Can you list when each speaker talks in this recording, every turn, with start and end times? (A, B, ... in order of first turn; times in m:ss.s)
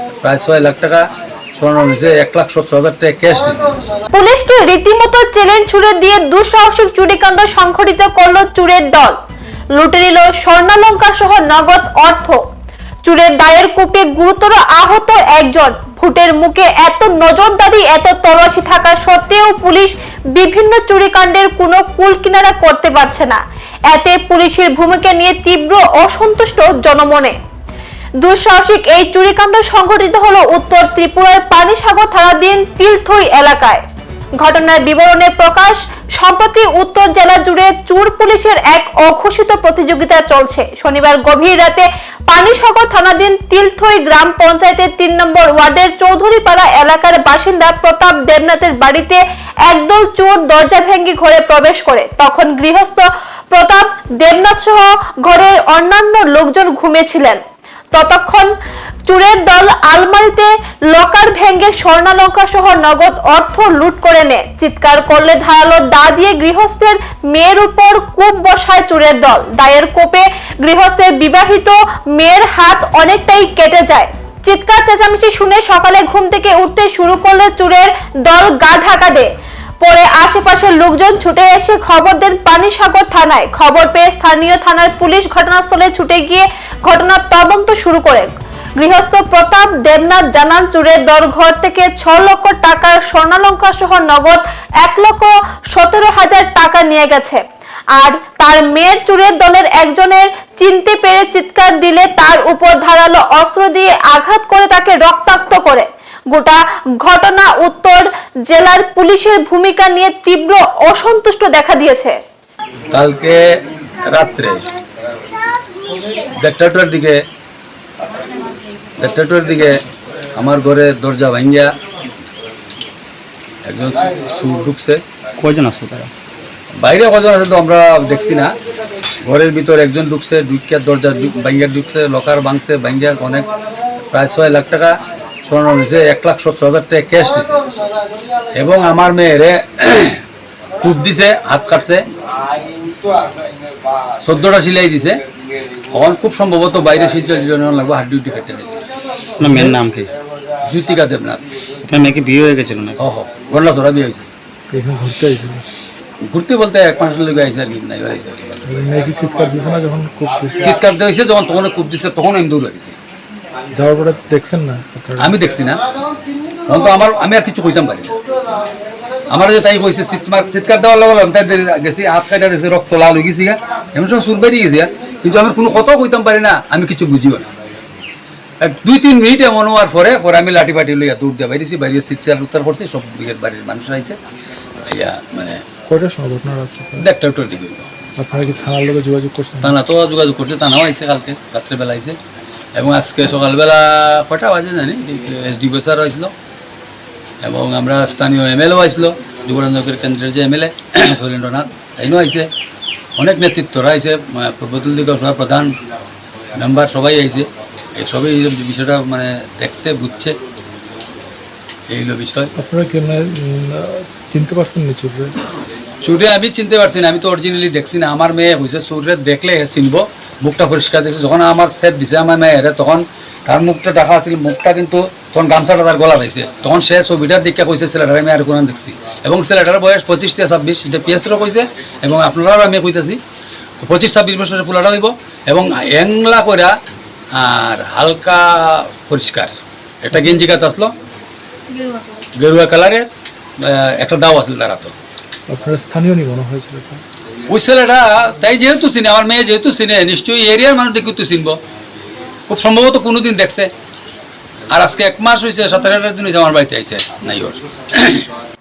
0:00.2-0:03.8 A
0:04.1-0:09.2 B
0:09.8-0:12.4 B
0:13.0-0:23.4 B
0:23.9-0:27.4 B
0:28.2-0:33.8 B
0:34.4-0:57.4 B
0:57.9-0:58.5 B
0:59.1-1:19.3 B
1:19.8-1:37.4 B
1:38.0-1:52.2 B
1:52.9-1:53.4 A
1:54.0-1:54.6 A
1:56.4-1:57.2 A
1:59.0-1:59.8 A
2:00.4-2:01.7 A
2:03.7-2:05.0 A
2:05.4-2:06.1 C
2:06.8-2:08.5 A
2:09.2-2:13.5 A
2:14.1-2:17.7 A
2:18.5-2:20.2 A
2:20.8-2:22.0 A
2:24.2-2:25.2 A
2:25.9-2:28.8 A
2:29.4-2:30.1 C
2:29.4-2:29.8 D
2:30.6-2:31.4 A
2:31.9-2:33.0 C
2:33.0-2:34.3 A
2:34.7-2:35.6 D
2:36.3-2:38.6 A
2:38.7-2:40.7 D
2:40.6-2:43.0 A
2:43.8-2:45.4 D
2:45.2-2:45.8 A
2:46.7-2:48.2 A
2:49.3-2:57.5 A
2:58.6-3:04.2 A
3:04.8-3:05.6 A
3:05.9-3:07.1 D
3:07.0-3:07.9 A
3:08.2-3:09.8 D
3:09.6-3:12.2 A
3:12.8-3:16.3 A
3:17.4-3:22.5 A
3:23.2-3:25.7 A
3:26.6-3:30.4 A
3:31.9-3:32.5 A
3:32.6-3:35.4 D
3:36.0-3:53.2 A
3:53.8-3:56.8 A
3:57.3-4:00.9 A
4:02.4-4:03.1 A
4:03.6-4:04.9 A
4:05.5-4:07.0 D
4:07.5-4:11.6 A
4:12.5-4:13.7 A
4:14.7-4:18.2 A